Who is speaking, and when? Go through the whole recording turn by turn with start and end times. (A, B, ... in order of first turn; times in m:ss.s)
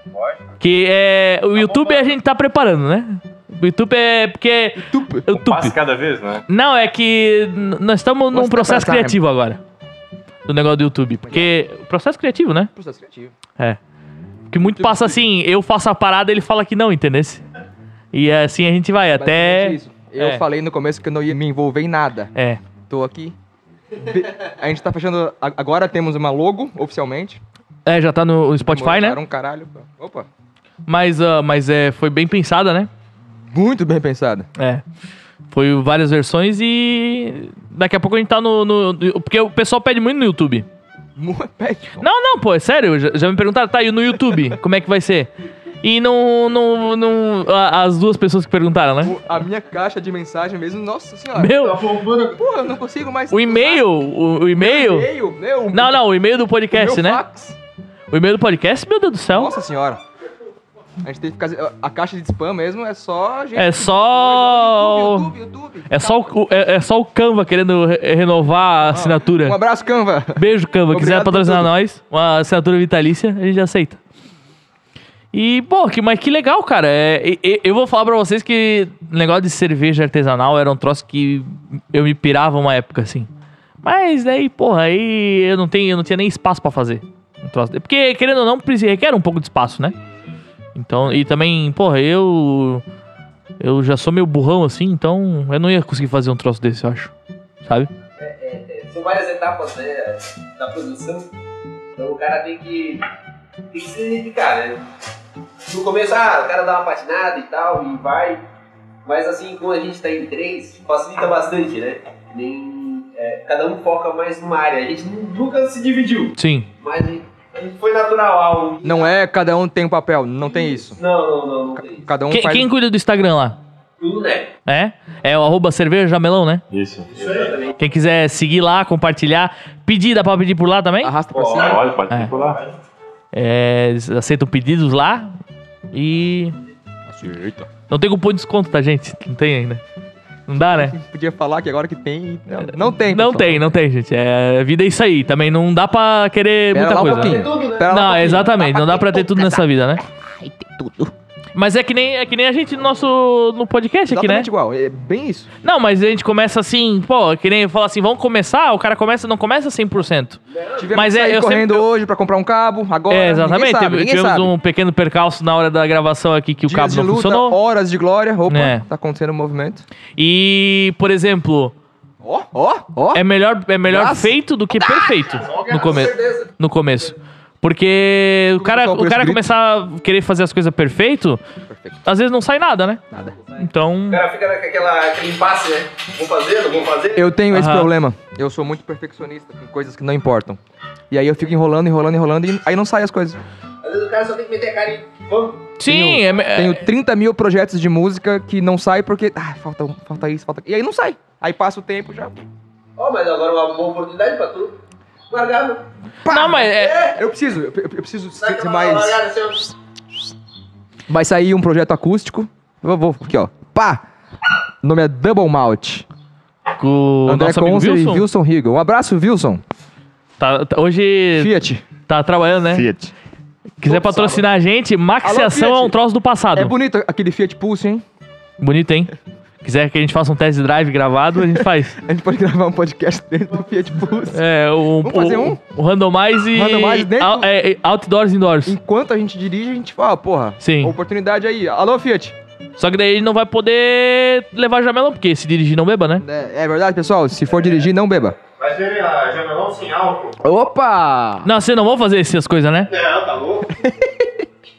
0:00.1-0:00.6 A
0:00.6-0:05.7 B
0:01.5-0:02.2 A
0:04.8-0:05.2 C
0:05.3-0:06.4 D
0:06.5-0:09.6 B
0:08.3-0:09.2 C
0:10.4-0:12.7 B
0:11.2-0:11.5 C
0:12.7-0:13.3 C
0:14.5-0:17.4 B
0:14.6-0:15.2 C
0:18.1-0:20.4 B
0:19.1-0:22.3 C
0:22.3-0:22.6 B
0:22.9-0:23.4 C
0:23.9-0:27.4 C
0:27.8-0:29.2 B
0:28.6-0:30.3 C
0:30.8-0:32.9 B
0:33.3-0:34.5 C
0:34.6-0:34.8 B
0:35.5-0:40.7 B
0:41.2-0:42.1 C
0:42.0-0:45.3 B
0:45.8-0:49.2 B
0:49.0-0:51.6 C
0:51.3-0:51.8 B
0:51.6-0:52.4 A
0:52.4-0:53.9 C
0:53.3-0:55.1 B
0:54.6-0:56.0 C
0:55.7-0:57.2 B
0:56.7-0:57.6 C
0:58.1-0:59.5 B
0:59.3-1:00.0 C
1:01.0-1:06.3 C
1:03.5-1:05.3 B
1:05.9-1:09.6 B
1:08.9-1:11.7 C
1:10.4-1:14.0 B
1:15.3-1:23.3 B
1:23.8-1:29.9 B
1:30.7-1:32.8 B
1:33.6-1:37.1 B
1:37.6-1:37.9 B
1:38.2-1:41.3 E
1:41.9-1:43.1 E
1:43.7-1:44.8 E
1:45.7-1:48.4 E
1:49.0-1:59.1 E
1:56.4-1:56.7 B
1:58.8-2:01.0 C
2:00.7-2:02.1 E
2:01.8-2:02.7 C
2:02.3-2:03.6 B
2:04.0-2:04.5 E
2:04.6-2:06.6 B
2:06.7-2:07.5 D
2:07.1-2:07.6 A
2:07.2-2:07.7 E
2:07.8-2:11.1 B
2:11.0-2:11.8 C
2:11.3-2:12.6 D
2:12.4-2:12.7 A
2:13.3-2:15.4 B
2:15.9-2:16.6 B
2:17.1-2:17.7 C
2:17.9-2:19.8 B
2:20.5-2:21.0 B
2:20.7-2:23.7 C
2:23.0-2:30.0 B
2:26.7-2:31.1 C
2:27.0-2:28.1 E
2:31.5-2:34.5 B
2:34.1-2:35.5 C
2:35.6-2:40.4 B
2:40.5-2:41.0 E
2:40.8-2:44.5 C
2:40.9-2:41.8 B
2:43.1-2:47.6 B
2:46.6-2:49.8 C
2:48.5-2:48.8 B
2:50.2-2:51.7 B
2:52.2-2:53.2 C
2:53.1-3:01.4 B
2:53.8-2:55.2 C
2:55.4-2:56.1 A
2:55.7-2:56.5 E
2:58.6-2:59.5 C
3:01.6-3:02.0 C
3:02.0-3:03.0 B
3:03.1-3:03.4 C
3:03.6-3:04.2 B
3:04.1-3:07.3 E
3:07.1-3:13.4 C
3:07.5-3:07.9 B
3:13.8-3:15.7 E
3:15.8-3:16.8 B
3:15.8-3:22.4 C
3:23.0-3:24.8 E
3:25.3-3:25.8 E
3:26.2-3:29.2 C
3:26.2-3:27.0 B
3:26.6-3:27.2 E
3:28.4-3:29.7 E
3:31.1-3:34.0 C
3:34.8-3:36.0 C
3:36.8-3:38.2 B
3:37.2-3:39.6 C
3:40.4-3:41.5 B
3:41.4-3:41.8 C
3:42.0-3:42.9 B
3:42.7-3:43.1 C
3:43.8-3:46.7 B
3:43.8-3:44.5 C
3:45.2-3:46.0 C
3:46.5-3:48.0 C
3:48.6-3:52.0 B
3:51.4-3:54.4 C
3:54.3-3:58.8 B
3:55.0-3:55.6 C
3:56.5-3:57.5 C
3:58.6-4:02.4 C
4:00.6-4:00.9 B
4:02.8-4:06.2 B
4:06.2-4:08.4 C
4:08.6-4:10.4 A
4:10.4-4:11.5 C
4:11.4-4:12.9 B
4:12.9-4:13.8 A
4:13.8-4:14.3 C